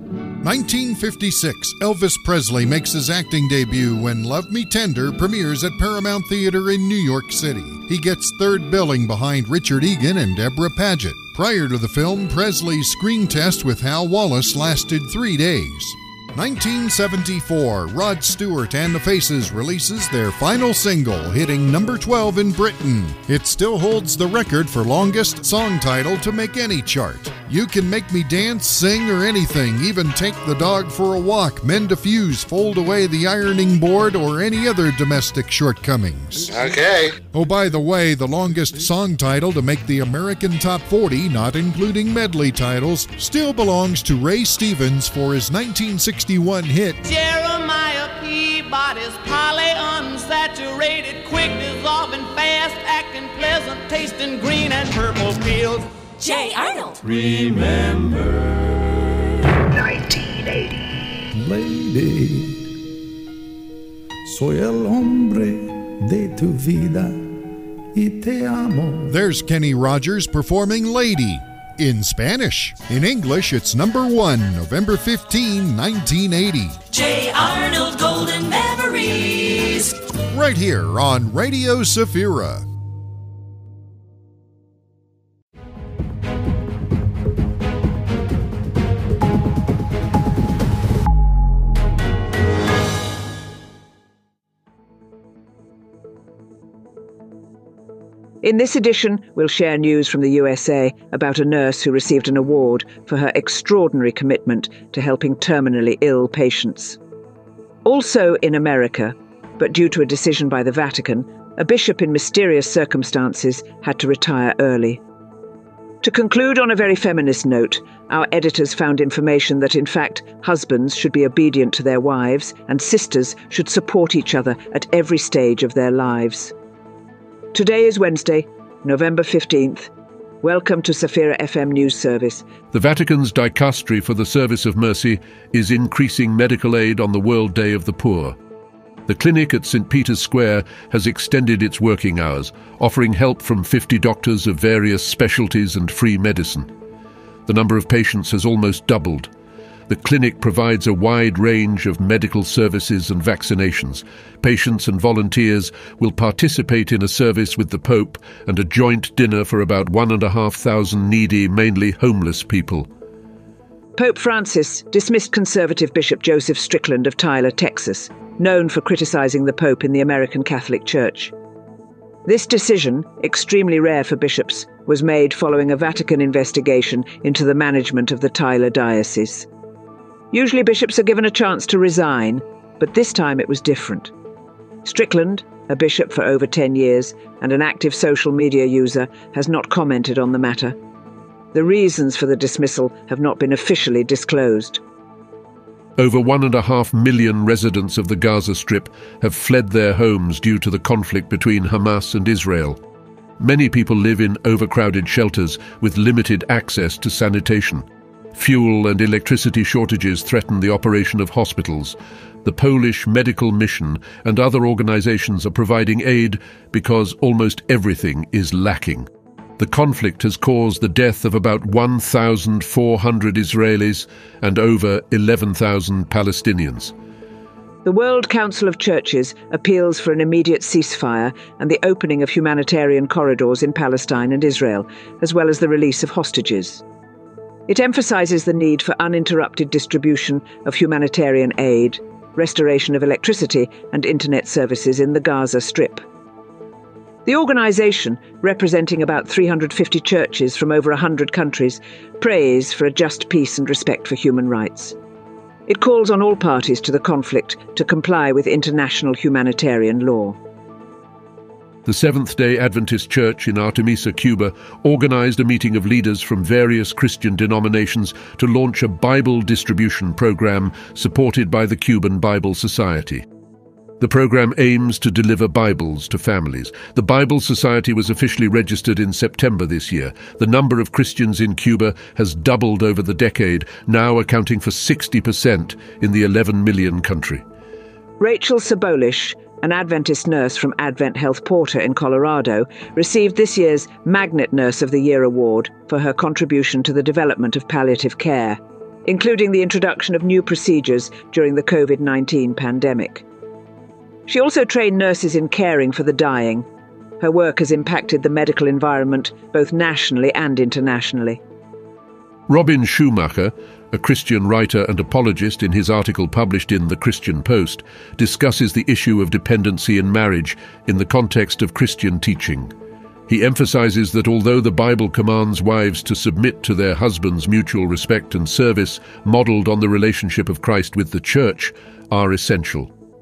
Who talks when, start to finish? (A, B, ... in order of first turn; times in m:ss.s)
0:00.4-0:47.0 A
0:47.0-0:56.4 B
0:56.3-0:57.0 C
0:57.0-0:58.8 D
0:59.5-1:00.8 D
1:01.3-1:02.7 D
1:04.3-1:07.3 D
1:07.9-1:09.1 D
1:09.1-1:16.8 A
1:16.9-1:20.0 C
1:20.2-1:22.7 A
1:38.4-1:47.0 E
1:47.8-1:55.0 E
1:56.0-2:06.5 E
2:07.5-2:09.9 E
2:10.4-2:12.5 E
2:12.7-2:18.4 F
2:19.1-2:26.7 F
2:27.5-2:29.3 F
2:29.9-2:42.9 F
2:44.0-2:51.3 E
2:52.3-2:59.5 E
3:00.3-3:04.1 E
3:04.8-3:10.8 E
3:11.5-3:14.8 E
3:16.0-3:22.8 F
3:23.4-3:39.1 F
3:39.6-3:46.9 F
3:47.8-3:56.8 E
3:57.7-4:06.0 E
4:07.3-4:15.0 E
4:15.7-4:20.4 E
4:21.8-4:33.2 F
4:34.0-4:47.4 F
4:48.2-5:03.2 E
5:04.3-5:06.7 E
5:07.2-5:11.4 E
5:12.5-5:22.7 F
5:23.3-5:32.9 F